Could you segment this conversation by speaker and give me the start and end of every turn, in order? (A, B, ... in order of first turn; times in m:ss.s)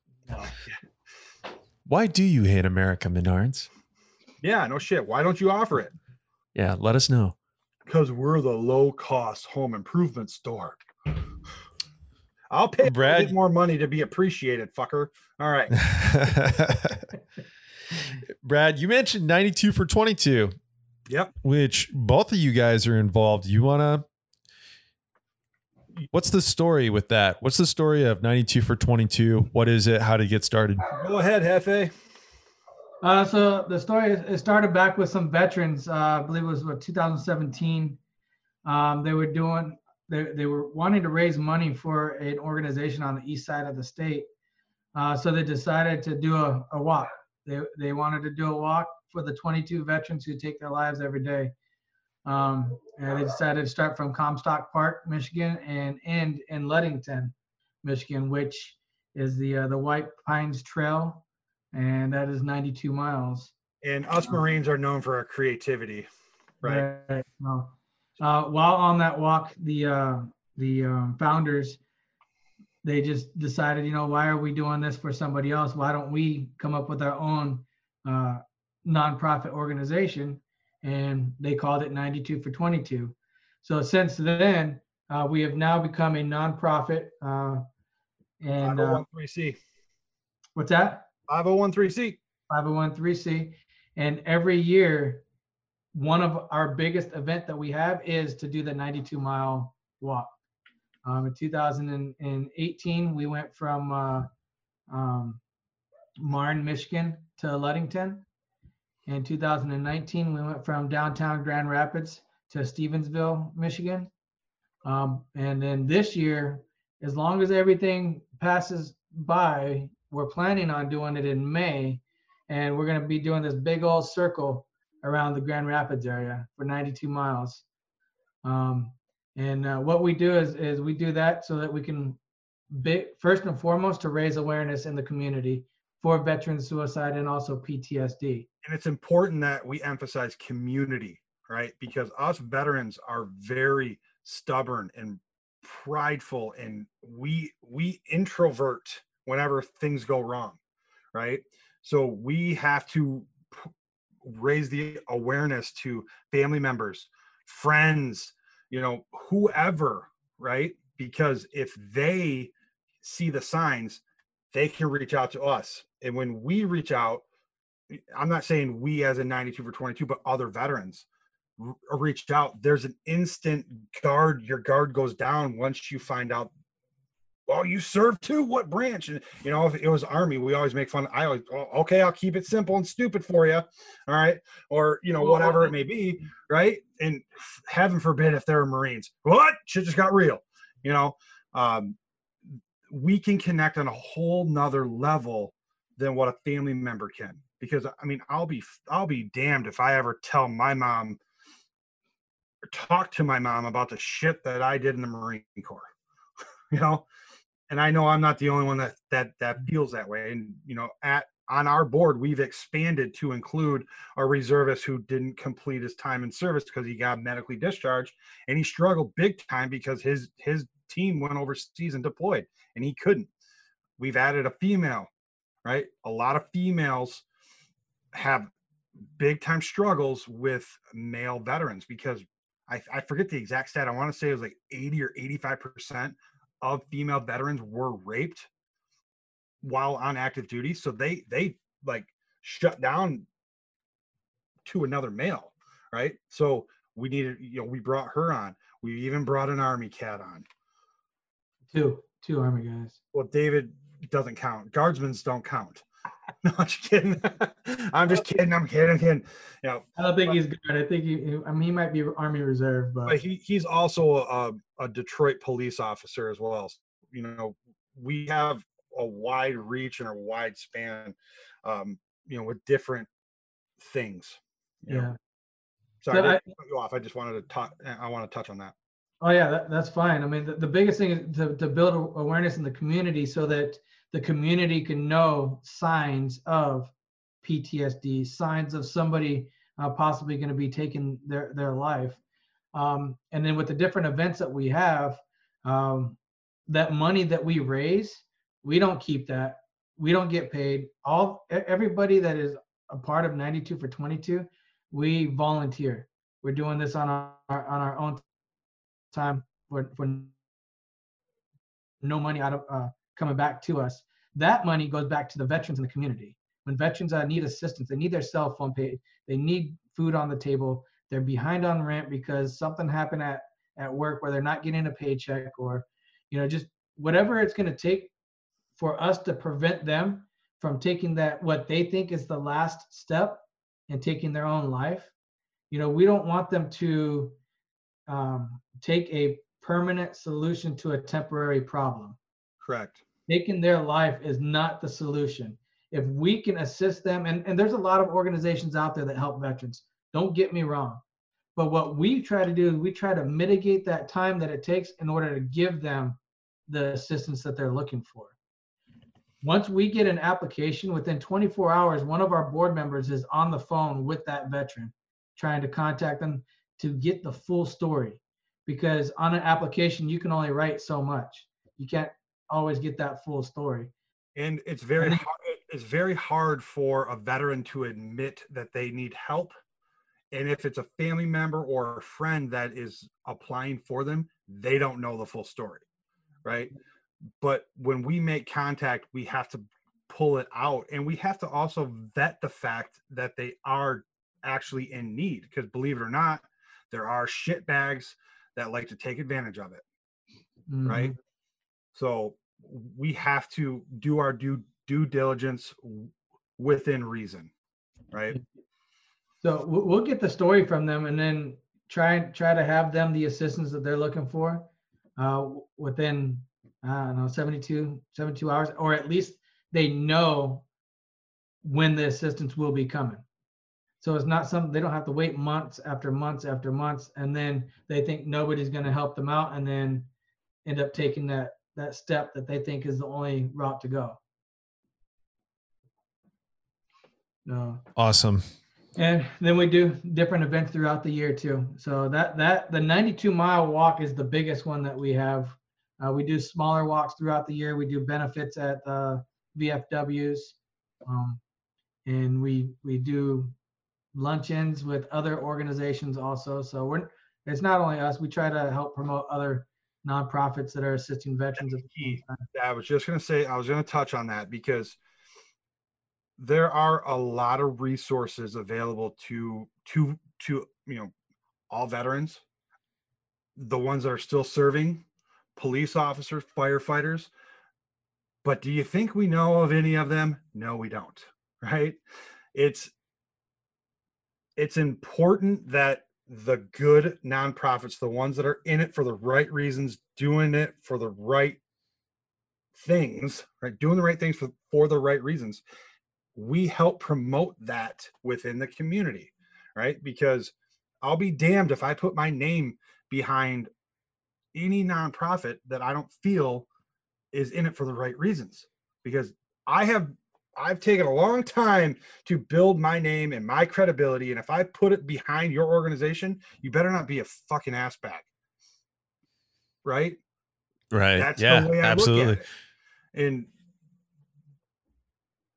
0:01.8-0:03.7 A
0:04.4-0:05.9 B
0:06.5-0:07.4 A
0:07.9-0:10.8 B
0:12.5-0:15.8 B
0:12.8-0:13.3 A
0:15.8-0:17.1 A
0:18.3-0:20.6 A
0:21.4-0:24.0 A
0:26.1-0:30.9 A
0:30.9-0:31.9 B
0:33.0-0:38.0 C
0:38.6-0:44.2 C
0:44.9-0:51.5 C
0:52.2-1:03.5 C
1:03.8-1:06.1 B
1:06.6-1:11.8 C
1:12.8-1:27.6 C
1:28.4-1:29.0 C
1:28.6-1:29.6 B
1:30.6-1:31.0 C
1:31.3-1:32.2 B
1:32.5-1:35.2 C
1:35.9-1:40.3 C
1:41.0-1:44.3 C
1:44.9-1:45.4 C
1:46.2-1:48.2 C
1:49.1-1:54.1 C
1:54.8-2:07.6 C
2:08.4-2:12.2 C
2:12.7-2:18.5 C
2:18.6-2:30.6 B
2:31.1-2:33.7 B
2:34.2-2:44.0 B
2:44.5-2:47.2 B
2:47.9-2:51.0 B
2:51.6-2:56.5 B
2:57.5-3:12.0 B
3:05.2-3:05.7 C
3:12.9-3:21.2 B
3:22.7-3:25.9 B
3:26.7-3:27.0 B
3:27.7-3:43.3 B
3:44.0-3:45.1 B
3:45.6-3:47.2 B
3:48.1-3:48.5 B
3:49.2-3:58.5 B
3:59.6-4:03.3 B
4:04.6-4:10.4 B
4:11.7-4:13.0 C
4:13.1-4:15.8 B
4:16.4-4:20.4 B
4:20.0-4:23.2 C
4:23.0-4:33.1 B
4:33.8-4:35.1 B
4:34.9-4:35.1 C
4:36.0-4:38.7 B
4:36.1-4:36.4 C
4:39.2-4:52.2 C
4:52.7-4:56.2 C
4:56.7-5:08.2 C
5:09.1-5:10.3 C
5:12.0-5:28.1 C
5:28.8-5:35.1 C
5:35.7-5:37.4 C
5:38.1-5:42.2 C
5:42.6-5:43.0 B
5:43.3-5:51.0 C
5:51.6-5:58.3 C
5:59.4-6:13.9 C
6:14.4-6:19.5 B
6:20.3-6:25.8 B
6:26.4-6:26.7 B
6:27.4-6:39.8 B
6:40.7-6:41.2 C
6:40.8-6:41.1 B
6:41.9-6:47.5 B
6:48.1-6:48.4 B
6:49.4-7:00.6 C
7:01.6-7:03.2 C
7:04.0-7:10.1 C
7:10.6-7:14.2 C
7:17.4-7:17.8 C
7:18.0-7:18.4 A
7:19.0-7:31.4 C
7:32.0-7:33.5 C
7:34.1-7:42.4 C
7:41.6-7:45.0 B
7:46.4-7:51.1 B
7:51.7-7:52.4 B
7:53.6-7:55.0 B
7:55.6-7:57.3 B
7:58.4-8:02.0 B
8:02.5-8:02.9 B
8:04.6-8:11.6 B
8:12.7-8:15.6 B
8:16.4-8:23.7 B
8:24.5-8:26.7 B
8:27.3-8:38.3 B
8:39.8-8:40.2 B
8:40.9-8:42.4 A
8:41.2-8:42.4 B
8:43.1-8:43.5 B